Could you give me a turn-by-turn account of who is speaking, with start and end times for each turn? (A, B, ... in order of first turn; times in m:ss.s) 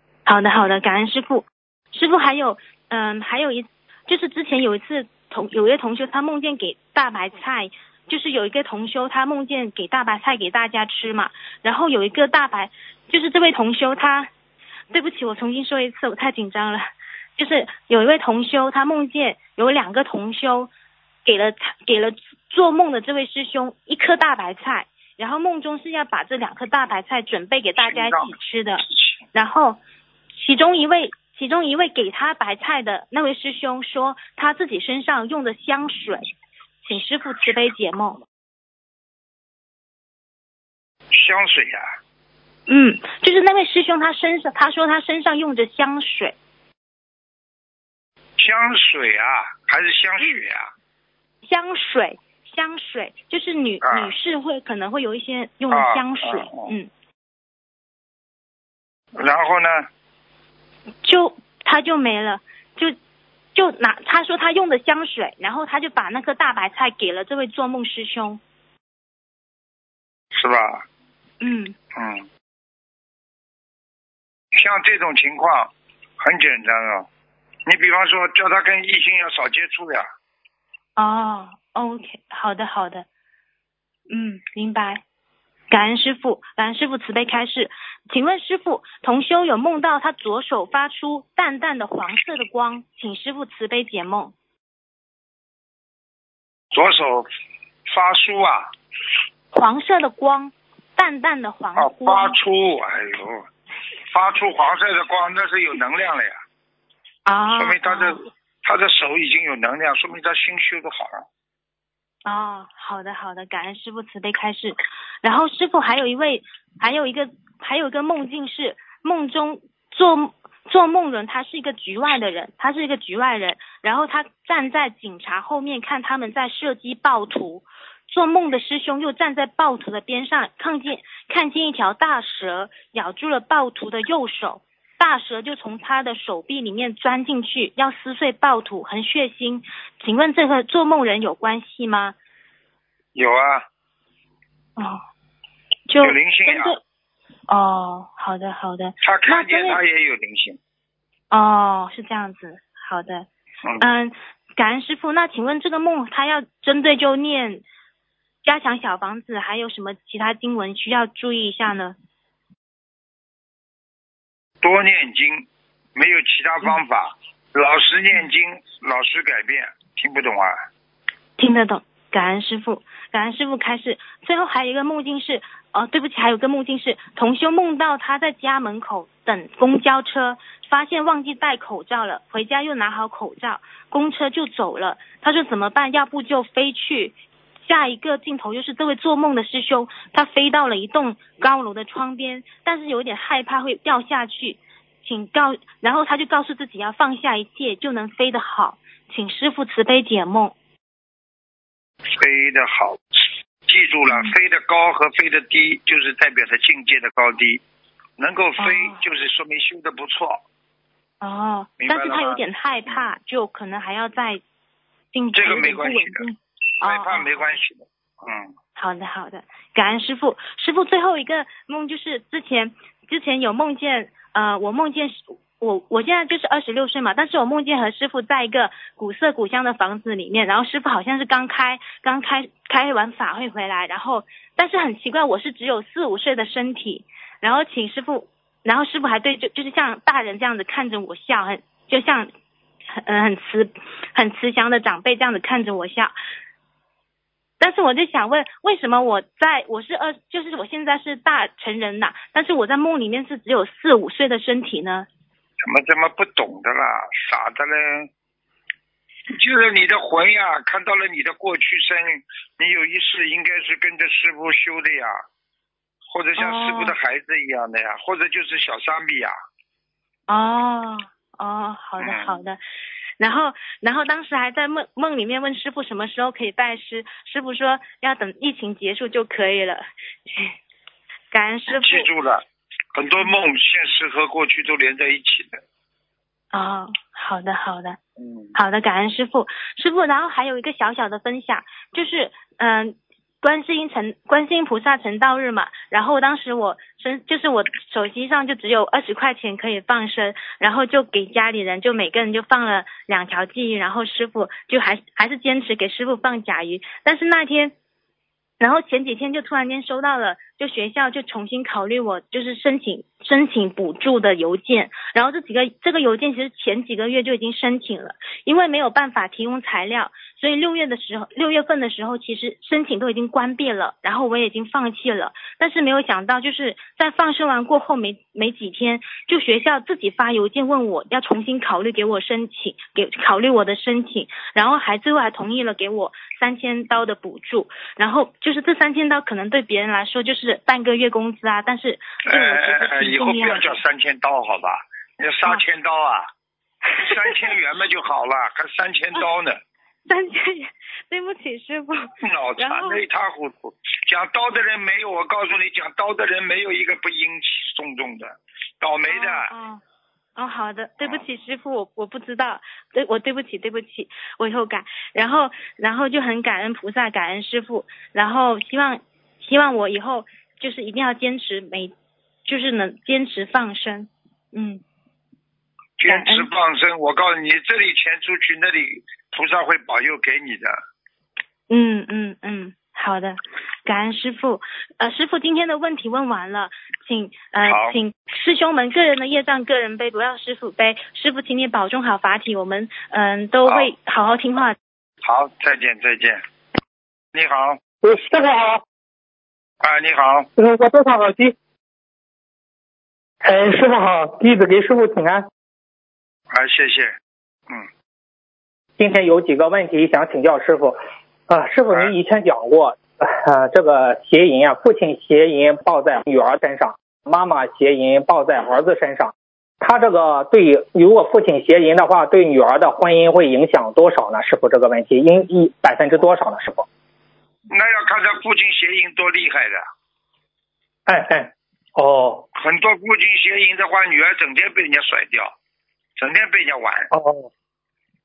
0:00.2-0:14.3 A
0:14.9-0:20.7 A
0:21.2-0:29.8 A
0:27.8-0:28.4 B
0:30.3-0:36.3 A
0:36.8-0:38.2 A
0:41.1-0:41.8 B
0:42.7-0:46.3 A
0:48.4-0:50.7 B
0:51.4-0:56.9 A
0:53.8-0:54.1 B
0:55.7-0:56.7 B
0:59.2-0:59.9 B
1:01.0-1:03.0 A
1:03.5-1:08.4 A
1:10.3-1:10.8 B
1:11.4-1:11.8 A
1:12.0-1:12.3 B
1:14.5-1:17.1 B
1:17.6-1:20.1 B
1:21.0-1:23.0 A
1:24.1-1:25.0 A
1:25.7-1:34.3 A
1:36.7-1:37.3 B
1:37.8-1:38.7 B
1:39.5-1:42.4 A
1:41.8-1:43.5 B
1:44.1-1:46.4 B
1:47.2-1:48.2 A
1:47.6-1:51.2 B
1:52.2-2:22.1 A
2:23.1-2:23.6 B
2:25.9-2:26.8 A
2:26.0-2:26.8 B
2:27.5-2:29.8 A
2:29.0-2:30.6 B
2:31.3-2:33.3 A
2:33.8-2:37.6 A
2:38.4-2:42.0 A
2:44.6-2:50.6 B
2:51.4-3:20.5 A
3:22.1-3:27.6 B
3:24.1-3:24.3 A
3:28.2-3:30.4 B
3:28.6-3:29.0 A
3:31.2-3:34.4 A
3:31.8-3:33.0 B
3:35.1-3:37.4 A
3:35.3-3:36.2 B
3:36.8-3:38.5 B
3:38.8-4:02.3 A
4:03.0-4:06.1 A
4:07.6-4:15.1 A
4:15.6-4:18.1 B
4:19.3-4:25.2 B
4:26.1-4:29.3 B
4:26.4-4:26.9 A
4:30.3-4:32.6 A
4:32.0-4:32.4 B
4:33.2-4:40.6 A
4:41.3-4:42.1 A
4:41.7-4:45.6 B
4:46.5-4:48.0 A
4:48.2-4:48.5 B
4:48.5-5:07.7 A
5:08.6-5:43.8 A
5:42.2-5:46.3 B
5:46.9-5:49.6 B
5:47.1-5:47.3 A
5:50.1-5:53.0 A
5:52.2-5:59.5 B
5:59.1-5:59.8 A
6:00.4-6:11.9 A
6:12.4-6:14.8 A
6:16.0-6:20.8 B
6:16.1-6:16.5 A
6:21.7-6:34.8 A
6:27.6-6:28.0 B
6:33.6-6:33.9 B
6:35.2-6:36.4 B
6:37.3-6:37.8 B
6:38.0-6:38.8 C
6:39.8-6:40.5 B
6:40.6-6:41.5 C
6:43.4-6:45.5 C
6:46.5-6:47.2 B
6:49.0-7:06.8 C
7:07.7-7:09.9 B
7:11.1-7:12.4 C
7:12.5-7:15.5 B
7:16.2-7:17.1 B
7:17.1-7:17.5 C